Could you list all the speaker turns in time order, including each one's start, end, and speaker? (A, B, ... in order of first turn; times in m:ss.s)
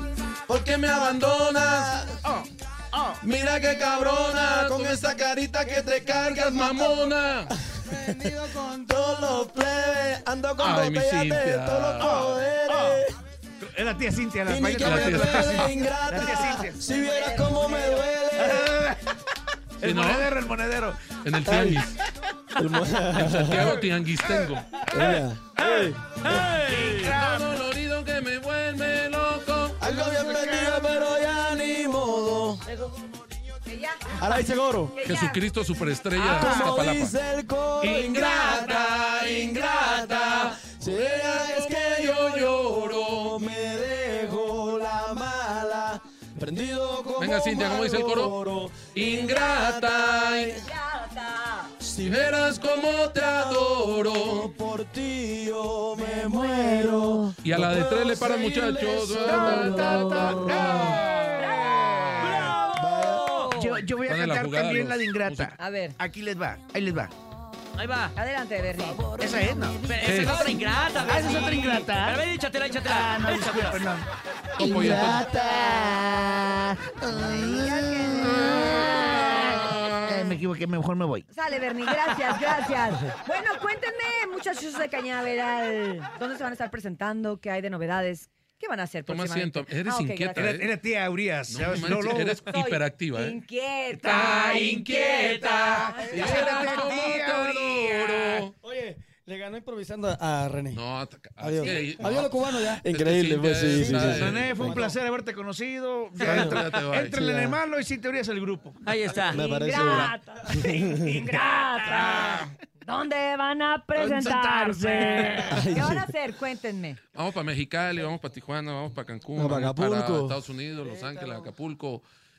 0:00.5-0:02.2 A
0:00.7-0:01.9 B
0:02.2-0:03.2 C
0:03.2-0:07.0 A
0:04.2-0:07.6 B
0:07.5-0:13.2 A
0:07.9-0:09.0 D
0:10.6-0:12.1 B
0:12.0-0:13.0 C
0:13.6-0:16.8 C
0:14.5-0:18.8 A
0:14.8-0:15.7 B
0:16.7-0:18.1 E
0:18.4-0:19.2 C
0:19.8-0:20.4 B
0:19.8-0:21.2 C
0:21.2-0:22.0 B
0:21.4-0:21.9 A
0:22.6-0:23.8 A
0:23.1-0:24.8 B
0:23.5-0:27.6 C
0:24.9-0:26.6 A
0:26.8-0:29.8 B
0:29.8-0:32.6 A
0:29.9-0:30.8 D
0:33.7-0:34.2 E
0:34.2-0:34.9 A
0:34.9-0:35.4 E
0:35.0-0:37.2 B
0:36.2-0:36.8 C
0:36.2-0:50.7 A
0:37.8-0:38.2 C
0:37.9-0:39.2 B
0:39.9-0:42.4 B
0:47.2-0:48.3 B
0:48.9-0:50.6 B
0:50.6-0:51.7 E
0:51.8-0:52.3 A
0:52.0-0:54.5 B
0:53.2-1:01.0 A
0:57.4-1:02.4 B
0:59.3-1:00.5 E
1:00.3-1:02.6 C
1:01.3-1:01.9 E
1:02.2-1:03.5 F
1:02.7-1:03.2 A
1:03.0-1:03.8 E
1:03.5-1:07.1 C
1:04.0-1:05.6 B
1:05.6-1:06.0 E
1:07.8-1:08.1 F
1:08.2-1:09.2 E
1:09.2-1:09.9 C
1:09.8-1:13.9 F
1:10.0-1:10.5 B
1:10.3-1:10.6 E
1:11.0-1:12.2 C
1:12.8-1:14.1 C
1:14.6-1:15.4 B
1:14.6-1:16.5 A
1:17.0-1:19.4 E
1:17.1-1:18.6 A
1:17.1-1:17.8 C
1:18.1-1:20.4 B
1:20.0-1:21.3 C
1:21.3-1:30.6 E
1:29.1-1:30.7 B
1:30.4-1:32.4 C
1:31.5-1:33.4 B
1:32.5-1:37.0 E
1:33.9-1:38.4 C
1:34.0-1:35.9 F
1:36.1-1:38.5 B
1:38.6-1:40.8 D
1:40.7-1:44.5 B
1:41.4-1:42.8 D
1:41.6-1:41.9 E
1:42.6-1:44.8 A
1:43.7-1:45.0 D
1:44.1-1:49.2 C
1:46.2-1:47.6 A
1:46.2-1:47.2 B
1:48.8-1:49.4 F
1:49.3-1:51.2 A
1:49.3-1:57.0 E
1:50.9-1:52.5 C
1:54.0-1:55.6 C
1:55.5-1:56.1 A
1:57.1-2:02.0 B
1:59.4-2:00.4 A
2:00.9-2:01.4 D